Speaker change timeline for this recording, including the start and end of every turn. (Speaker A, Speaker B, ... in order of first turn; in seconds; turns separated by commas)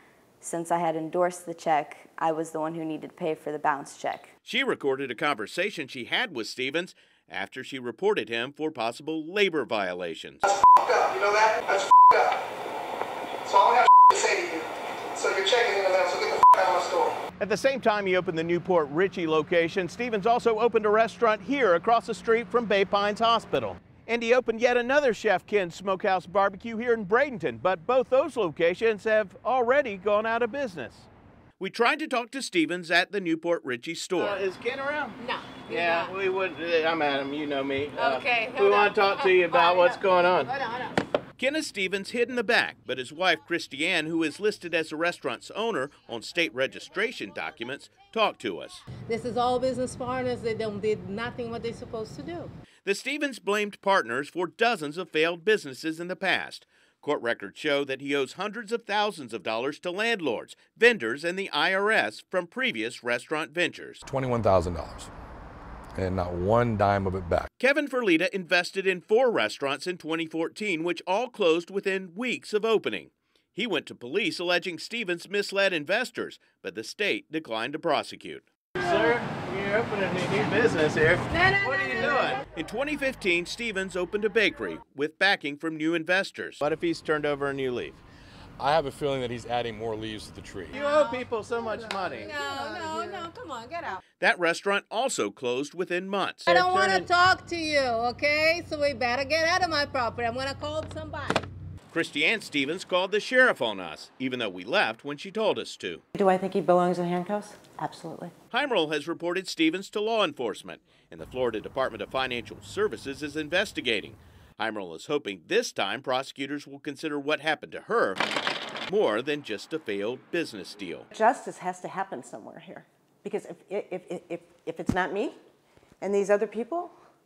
Speaker A: 0.4-4.3, Speaker B: 4.4-10.4, Speaker C: 10.6-12.3, Speaker C: 13.5-17.1, Speaker B: 17.4-31.1, Speaker B: 31.6-34.4, Speaker D: 34.1-40.5, Speaker E: 35.2-36.1, Speaker E: 38.0-39.9, Speaker E: 40.5-40.8, Speaker B: 41.4-48.9, Speaker E: 49.0-52.5, Speaker B: 52.9-64.0, Speaker F: 64.0-65.1, Speaker F: 66.0-67.5, Speaker B: 67.6-78.5, Speaker D: 78.8-82.4, Speaker B: 81.7-88.0, Speaker F: 88.6-90.7, Speaker D: 90.7-93.1, Speaker B: 91.1-92.2, Speaker E: 92.2-94.0, Speaker B: 94.2-96.5, Speaker D: 96.5-97.1, Speaker E: 96.5-101.5, Speaker B: 101.9-106.0, Speaker G: 106.1-108.3, Speaker B: 108.5-118.2, Speaker B: 118.9-121.1, Speaker G: 121.1-125.4, Speaker G: 126.0-126.9